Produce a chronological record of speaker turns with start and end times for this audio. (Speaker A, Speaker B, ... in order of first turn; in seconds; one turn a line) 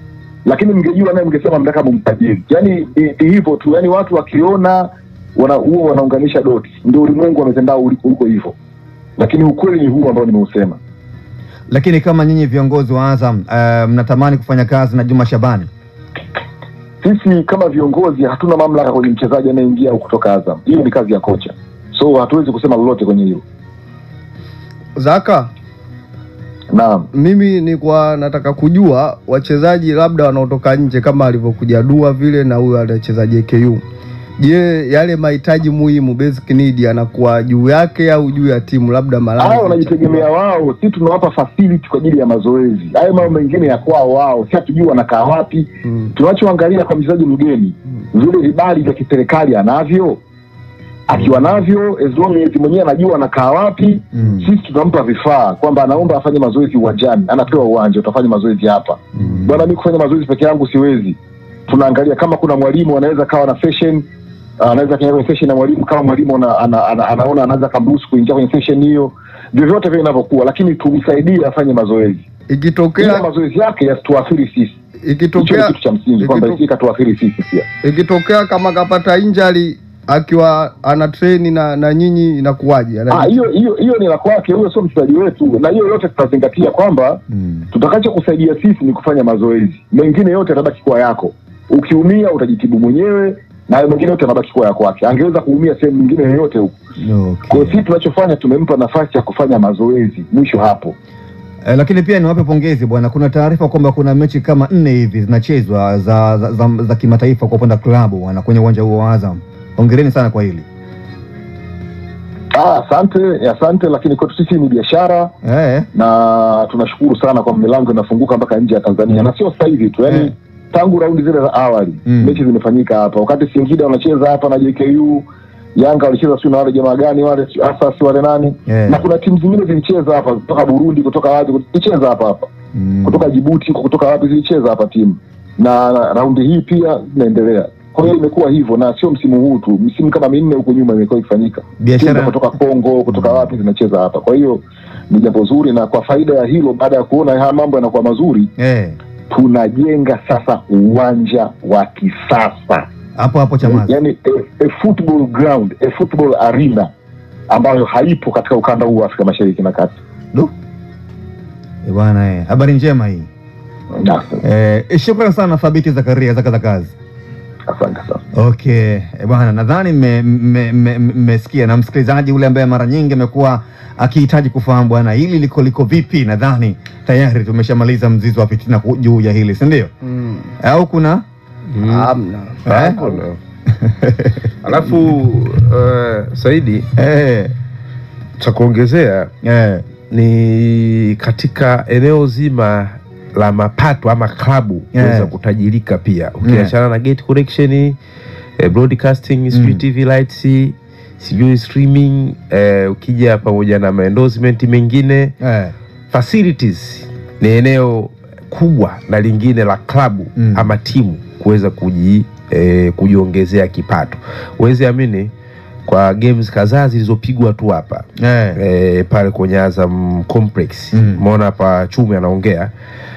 Speaker A: 0.5-8.5
Speaker A: 9.2-10.8
Speaker B: 11.7-15.7
Speaker A: 17.0-23.4
Speaker C: 24.9-25.5
Speaker A: 26.7-27.1
Speaker C: 27.1-33.8
Speaker C: 34.4-40.2
Speaker A: 39.4-50.2
Speaker A: 51.1-64.1
Speaker B: 59.3-59.6
Speaker A: 64.6-72.2
Speaker C: 72.5-73.3
Speaker A: 73.0-74.8
Speaker C: 75.0-76.6
Speaker A: 75.3-77.7
Speaker C: 77.8-83.5
Speaker A: 83.1-96.8
Speaker B: 87.3-87.7
Speaker B: 97.0-97.8
Speaker A: 97.5-100.9
Speaker B: 101.6-110.7
Speaker A: 112.5-115.3
Speaker B: 115.4-115.9
Speaker A: 115.9-132.5
Speaker B: 122.0-122.4
Speaker B: 128.7-129.0
Speaker B: 132.7-133.3
Speaker A: 133.0-148.5
Speaker B: 141.8-142.3
Speaker B: 148.6-149.0
Speaker A: 149.3-152.9
Speaker B: 153.2-154.0
Speaker A: 153.6-156.9
Speaker A: 157.5-160.0
Speaker B: 161.8-163.3
Speaker A: 163.9-164.4
Speaker B: 164.4-166.9
Speaker A: 167.7-168.2
Speaker B: 168.3-179.9
Speaker C: 180.1-180.5
Speaker B: 180.6-181.2
Speaker D: 181.7-182.1
Speaker C: 181.8-182.6
Speaker B: 182.7-183.1
Speaker D: 182.7-183.4
Speaker B: 183.7-184.5
Speaker D: 184.6-186.9
Speaker B: 186.9-187.5
Speaker D: 188.4-189.3
Speaker B: 189.4-189.8
Speaker D: 190.1-198.0
Speaker B: 194.9-195.3
Speaker B: 196.4-196.7
Speaker D: 198.6-205.3
Speaker B: 199.5-199.8
Speaker B: 205.4-205.7
Speaker D: 206.1-215.3
Speaker B: 210.4-210.7
Speaker D: 215.8-218.0
Speaker B: 218.2-218.6
Speaker D: 218.6-222.7
Speaker B: 220.9-221.2